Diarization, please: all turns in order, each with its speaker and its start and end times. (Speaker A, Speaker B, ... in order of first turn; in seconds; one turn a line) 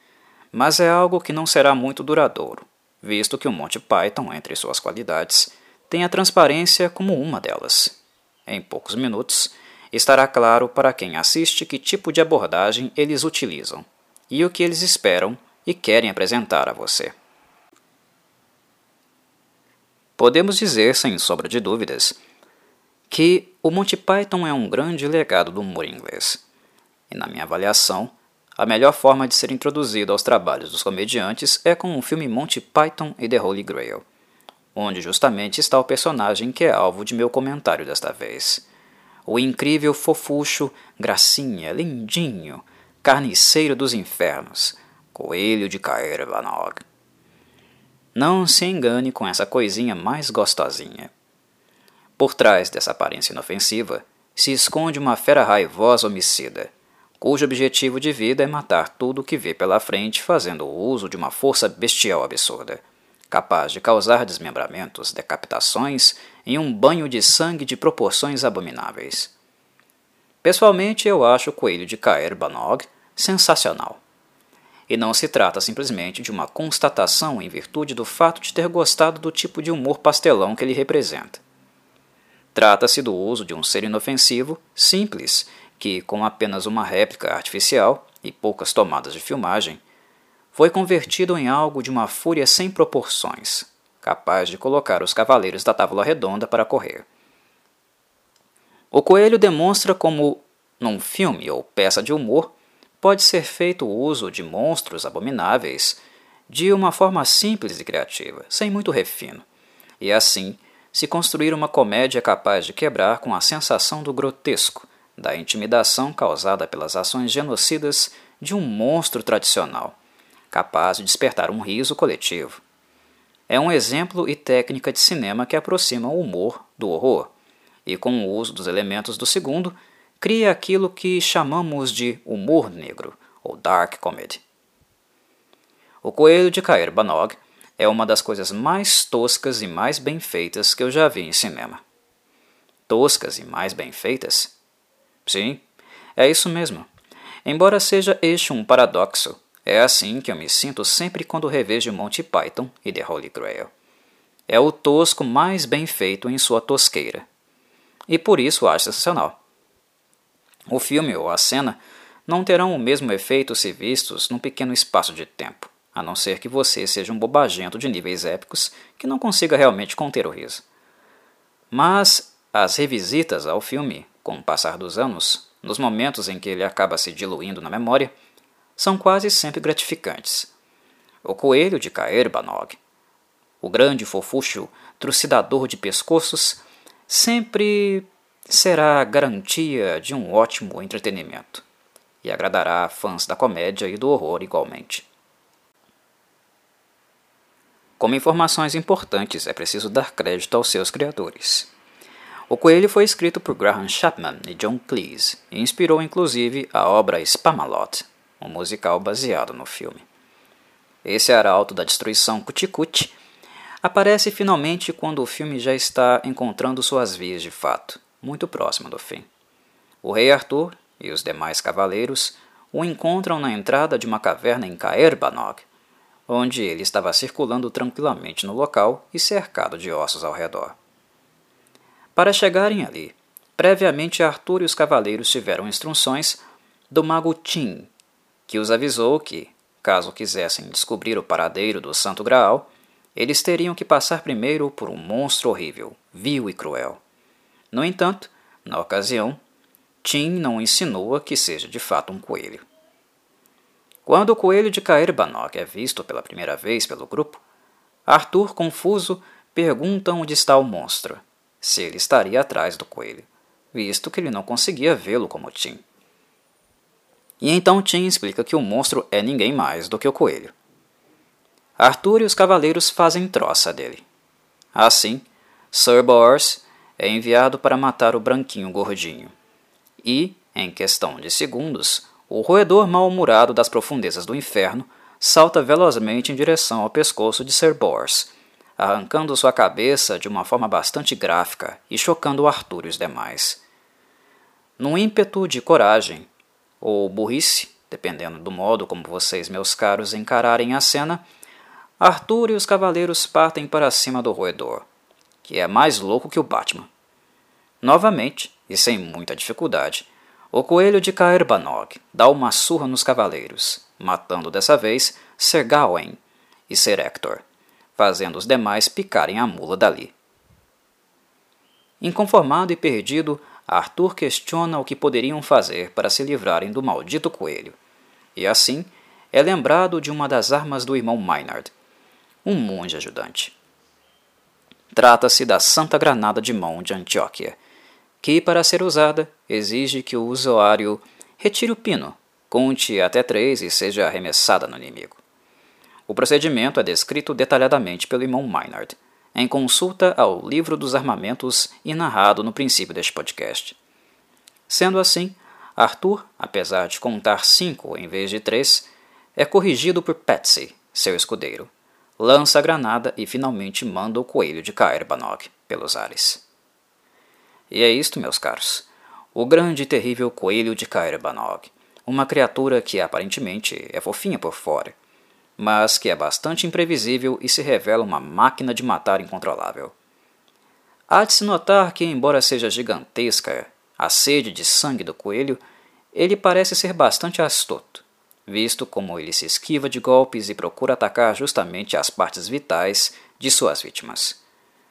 Speaker A: 0.5-17.1
Speaker A: 20.2-22.2
Speaker A: 23.1-26.4
Speaker A: 27.1-34.0
Speaker A: 34.8-38.6
Speaker A: 39.3-46.8
Speaker A: 48.1-51.1
Speaker A: 52.2-69.3
Speaker A: 70.4-74.0
Speaker A: 74.9-81.4
Speaker A: 82.5-89.8
Speaker A: 90.5-97.1
Speaker A: 98.9-109.5
Speaker A: 110.0-120.0
Speaker A: 120.5-122.6
Speaker A: 123.5-127.3
Speaker A: 127.9-134.4
Speaker A: 136.0-141.8
Speaker A: 142.9-144.5
Speaker A: 145.3-145.6
Speaker A: 146.2-146.9
Speaker A: 147.4-153.7
Speaker A: 154.5-157.3
Speaker A: 158.1-159.4
Speaker A: 160.7-170.7
Speaker A: 171.7-178.1
Speaker A: 178.8-180.5
Speaker A: 181.2-182.8
Speaker A: 183.6-191.6
Speaker A: 192.2-195.1
Speaker A: 198.0-201.7
Speaker A: 202.5-210.1
Speaker A: 211.0-213.2
Speaker A: 213.8-219.3
Speaker A: 220.0-225.7
Speaker A: 226.3-230.8
Speaker A: 232.2-237.9
Speaker A: 238.5-247.0
Speaker A: 247.7-249.4
Speaker A: 250.0-252.7
Speaker A: 254.1-257.4
Speaker A: 258.1-265.8
Speaker A: 267.4-270.5
Speaker A: 271.8-274.1
Speaker A: 274.7-279.3
Speaker A: 280.0-293.6
Speaker A: 294.8-296.3
Speaker A: 296.8-301.2
Speaker A: 302.0-304.9
Speaker A: 305.4-306.9
Speaker A: 307.8-317.4
Speaker A: 318.0-320.1
Speaker A: 322.0-327.8
Speaker A: 328.4-331.7
Speaker A: 332.4-333.6
Speaker A: 334.9-337.6
Speaker A: 338.2-345.2
Speaker A: 346.1-353.8
Speaker A: 354.7-366.4
Speaker A: 367.7-375.0
Speaker A: 375.6-379.9
Speaker A: 381.1-385.6
Speaker A: 386.1-394.4